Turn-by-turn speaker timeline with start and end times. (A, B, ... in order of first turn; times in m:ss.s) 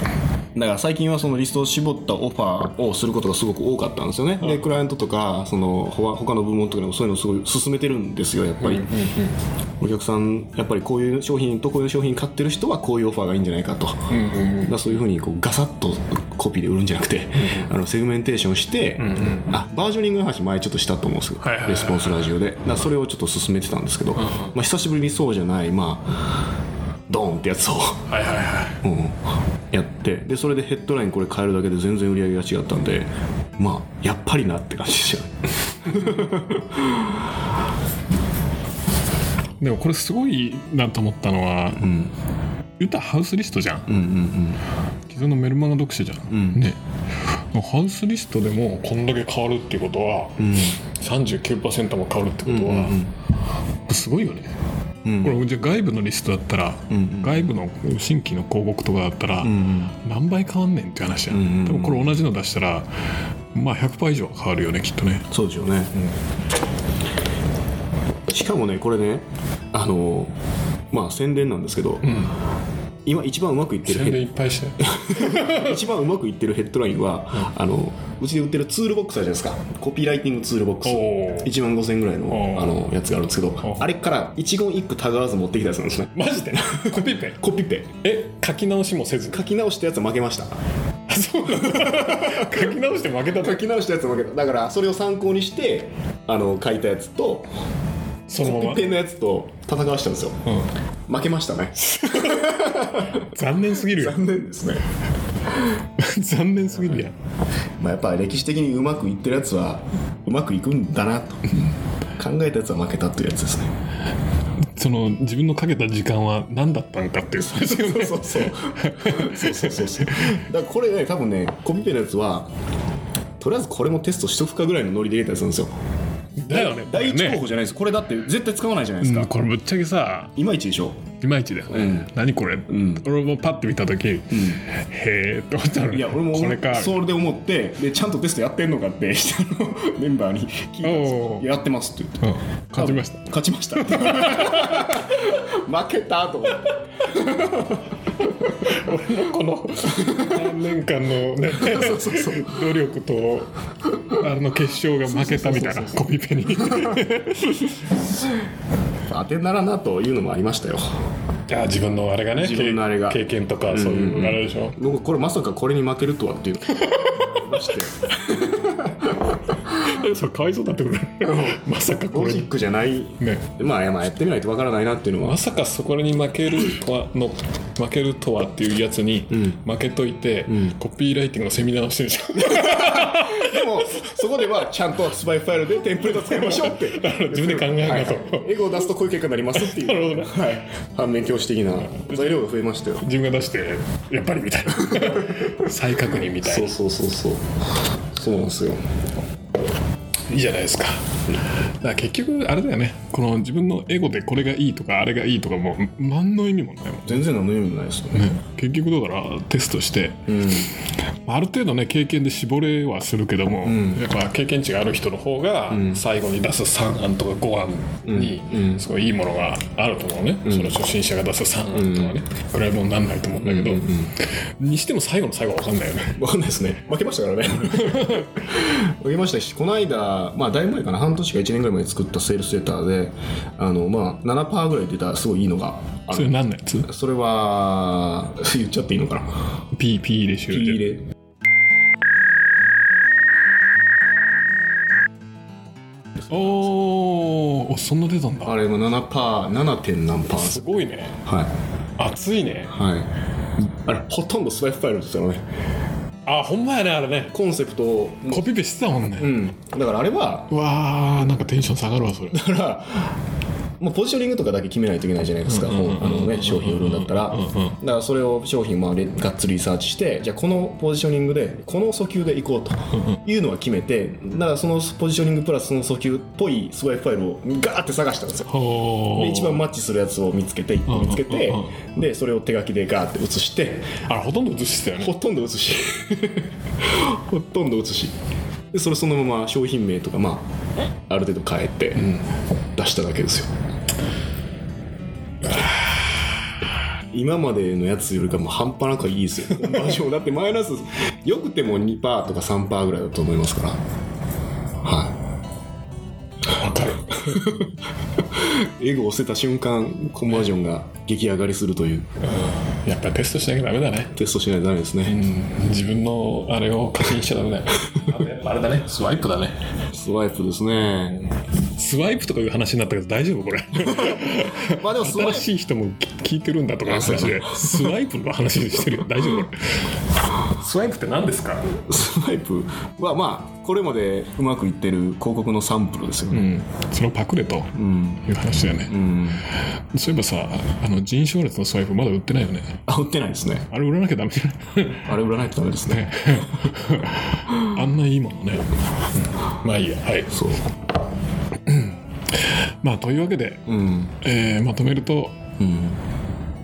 0:00.6-0:08.9 A
0:08.6-0:09.4 B
0:09.8-0:14.1 A
0:14.1-0:14.8 B
0:14.6-0:26.4 A
0:17.4-0:17.7 B
0:19.0-0:19.5 B
0:21.4-0:22.4 B
0:24.2-0:24.6 B
0:27.1-0:28.0 A
0:28.1-0:28.8 B
0:28.8-0:37.2 A
0:39.6-0:41.9 B
0:41.8-0:42.1 A
0:42.8-0:43.9 B
0:43.9-0:44.6 A
0:45.1-0:46.8 B
0:46.3-0:46.6 A
0:47.3-0:53.0 B
0:50.4-0:50.8 A
0:52.5-0:53.1 A
0:53.9-0:54.5 B
0:55.0-0:55.4 A
0:55.2-1:02.9 B
0:56.9-0:57.5 A
0:59.4-0:59.9 A
1:01.3-1:02.2 A
1:03.5-1:05.3 B
1:05.3-1:05.9 A
1:08.3-1:10.3 A
1:10.9-1:12.2 A
1:12.0-1:12.4 B
1:13.1-1:14.2 A
1:13.9-1:15.8 B
1:14.8-1:27.9 A
1:20.8-1:21.5 B
1:22.3-1:22.8 B
1:23.6-1:23.9 B
1:26.1-1:27.4 B
1:28.0-1:29.4 B
1:29.3-1:30.6 A
1:31.1-1:33.6 B
1:31.5-1:32.8 A
1:33.3-1:37.5 A
1:38.3-1:38.9 B
1:38.4-1:40.4 A
1:40.5-1:40.7 B
1:41.1-1:44.8 A
1:41.8-1:44.2 B
1:46.0-1:47.1 B
1:47.8-1:51.4 A
1:52.2-1:53.7 A
1:54.8-2:00.4 B
1:57.4-2:02.5 A
2:03.4-2:05.7 A
2:06.4-2:07.4 B
2:06.5-2:09.3 A
2:09.0-2:10.3 B
2:10.4-2:11.0 A
2:11.2-2:17.0 B
2:11.7-2:12.1 A
2:12.7-2:13.0 A
2:14.3-2:14.6 A
2:15.9-2:27.8 A
2:20.8-2:21.5 B
2:22.2-2:25.0 B
2:28.4-2:37.9 B
2:30.0-2:30.5 A
2:31.5-2:32.7 A
2:35.0-2:36.0 A
2:36.6-2:37.0 A
2:39.1-2:40.8 A
2:41.5-2:44.8 B
2:42.3-2:49.1 A
2:46.7-2:47.8 B
2:49.5-2:52.5 B
2:51.4-2:55.4 A
2:53.2-2:53.5 B
2:55.2-3:04.3 B
2:59.3-2:59.6 A
3:00.5-3:00.8 A
3:02.5-3:13.0 A
3:06.0-3:08.9 B
3:09.5-3:10.5 B
3:11.8-3:12.4 B
3:13.0-3:16.7 B
3:14.8-3:15.5 A
3:16.4-3:17.5 A
3:18.1-3:18.8 A
3:20.3-3:21.1 B
3:21.8-3:27.3 B
3:27.1-3:28.3 A
3:28.1-3:30.6 B
3:30.3-3:30.7 A
3:31.2-3:46.2 B
3:33.6-3:34.1 A
3:35.7-3:36.0 A
3:38.1-3:38.9 A
3:40.4-3:40.8 A
3:41.7-3:42.2 A
3:43.4-3:44.1 A
3:46.2-3:56.4 A
3:47.8-3:48.3 B
3:56.1-3:56.9 B
3:56.9-3:59.4 A
3:59.7-4:00.8 B
4:00.5-4:01.0 A
4:06.3-4:08.6 B
4:08.4-4:10.6 A
4:10.3-4:11.2 B
4:11.3-4:11.5 A
4:12.0-4:12.8 B
4:12.7-4:13.1 A
4:13.7-4:15.4 A
4:16.3-4:17.4 B
4:17.3-4:18.5 A
4:18.3-4:19.4 B
4:19.2-4:20.5 A
4:20.5-4:22.5 B
4:22.3-4:23.2 A
4:23.8-4:44.0 A
4:25.5-4:27.8 B
4:32.9-4:33.2 B
4:38.5-4:39.6 B
4:40.9-4:41.8 B
4:44.1-4:45.1 B
4:45.0-4:48.1 A
4:48.7-4:50.5 A
4:51.1-4:52.1 A
4:52.8-4:53.5 A
4:55.4-4:56.2 B
4:57.1-5:03.8 A
5:04.8-5:05.2 A
5:06.5-5:07.4 B
5:07.1-5:07.7 A
5:08.3-5:12.1 A
5:12.2-5:14.1 B
5:14.2-5:15.2 A
5:15.1-5:19.6 B
5:19.9-5:21.2 A
5:21.3-5:31.7 B
5:23.9-5:25.5 A
5:26.8-5:28.0 A
5:31.7-5:36.5 A
5:36.3-5:42.8 B
5:37.8-5:38.2 A
5:38.9-5:39.4 A
5:42.9-5:43.7 A
5:43.7-5:45.2 B
5:45.0-5:46.5 A
5:45.9-5:48.7 B
5:49.5-5:50.4 B
5:50.3-5:50.6 A
5:51.7-5:53.6 B
5:53.7-5:54.2 A
5:54.2-5:55.4 B
5:55.6-5:56.0 A